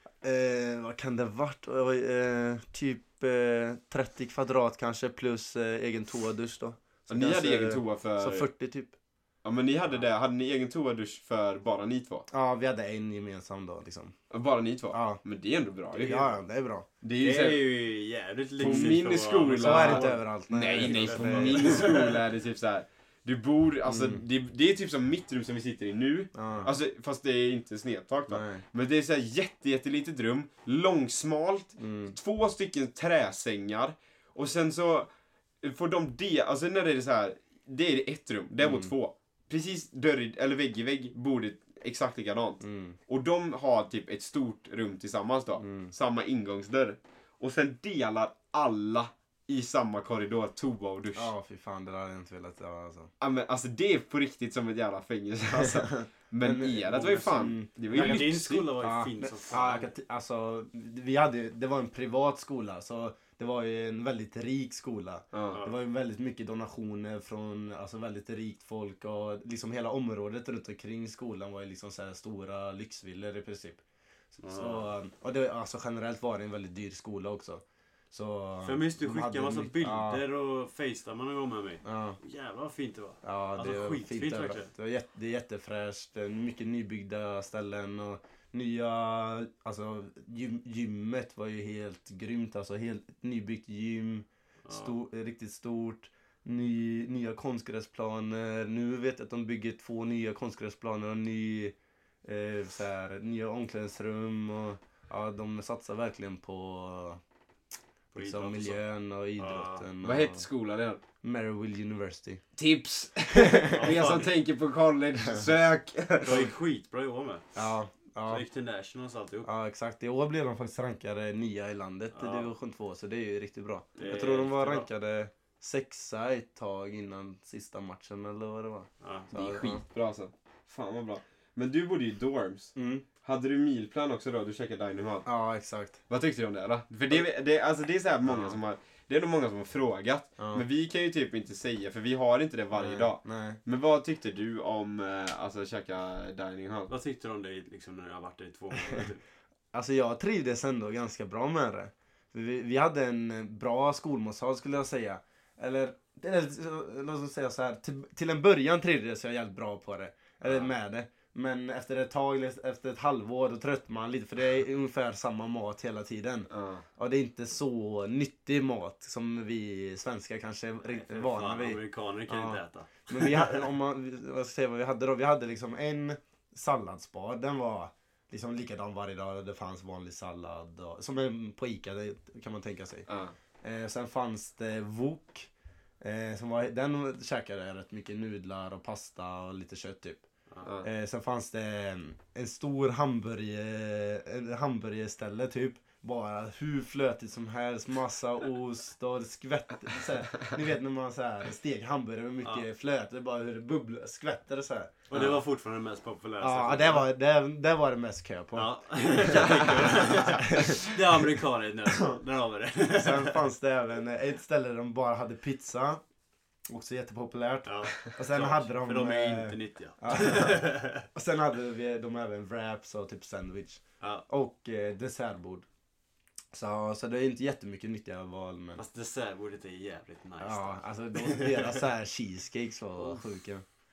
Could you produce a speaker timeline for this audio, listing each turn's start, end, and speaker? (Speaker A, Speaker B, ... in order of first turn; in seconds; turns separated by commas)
Speaker A: 0.2-8.9, Speaker B: 7.1-8.5, Speaker B: 9.4-12.3, Speaker A: 12.3-14.2, Speaker B: 14.3-16.3, Speaker A: 14.9-15.2, Speaker A: 15.9-16.9, Speaker B: 17.0-17.6, Speaker C: 17.2-22.2, Speaker B: 18.6-51.3, Speaker A: 18.6-19.0, Speaker A: 19.6-21.9, Speaker A: 23.9-24.2, Speaker A: 26.4-26.7, Speaker A: 28.3-28.6, Speaker A: 31.8-32.1, Speaker A: 38.6-38.9, Speaker A: 42.6-43.0, Speaker A: 45.6-45.9, Speaker A: 51.1-53.1, Speaker B: 53.2-58.7, Speaker A: 55.5-73.8, Speaker C: 56.9-57.3, Speaker C: 57.9-59.9, Speaker B: 65.3-65.6, Speaker C: 65.5-65.8, Speaker C: 74.4-74.9, Speaker A: 74.5-80.2, Speaker C: 78.6-84.7, Speaker A: 81.8-82.2, Speaker A: 83.2-107.2, Speaker C: 94.7-95.0, Speaker C: 108.1-108.8, Speaker A: 108.2-110.5, Speaker C: 109.4-109.9, Speaker B: 110.0-111.0, Speaker A: 111.2-112.4, Speaker B: 112.6-116.5, Speaker A: 113.3-114.0, Speaker C: 113.7-114.3, Speaker A: 115.2-115.5, Speaker C: 116.2-117.6, Speaker A: 117.5-118.5, Speaker C: 118.2-119.5, Speaker A: 119.4-129.8, Speaker C: 122.1-122.5, Speaker C: 124.0-124.9, Speaker C: 129.0-129.3, Speaker B: 129.3-135.3, Speaker A: 132.8-133.1, Speaker A: 135.2-136.0, Speaker B: 136.1-146.9, Speaker A: 138.2-138.6, Speaker A: 140.4-140.7, Speaker A: 142.7-143.6, Speaker C: 146.9-149.2, Speaker A: 149.7-183.1, Speaker B: 160.4-160.7, Speaker B: 166.5-166.8, Speaker C: 170.8-173.7, Speaker B: 183.1-183.4, Speaker A: 183.6-185.5, Speaker A: 186.0-190.2, Speaker A: 190.8-205.3, Speaker C: 205.1-207.1, Speaker A: 206.4-210.8, Speaker C: 208.5-213.4, Speaker B: 209.2-210.8, Speaker A: 213.0-216.0, Speaker A: 216.7-225.7, Speaker C: 217.7-221.1, Speaker C: 224.0-224.2, Speaker A: 226.5-228.8, Speaker C: 228.8-231.8, Speaker A: 230.4-233.7, Speaker C: 233.0-233.3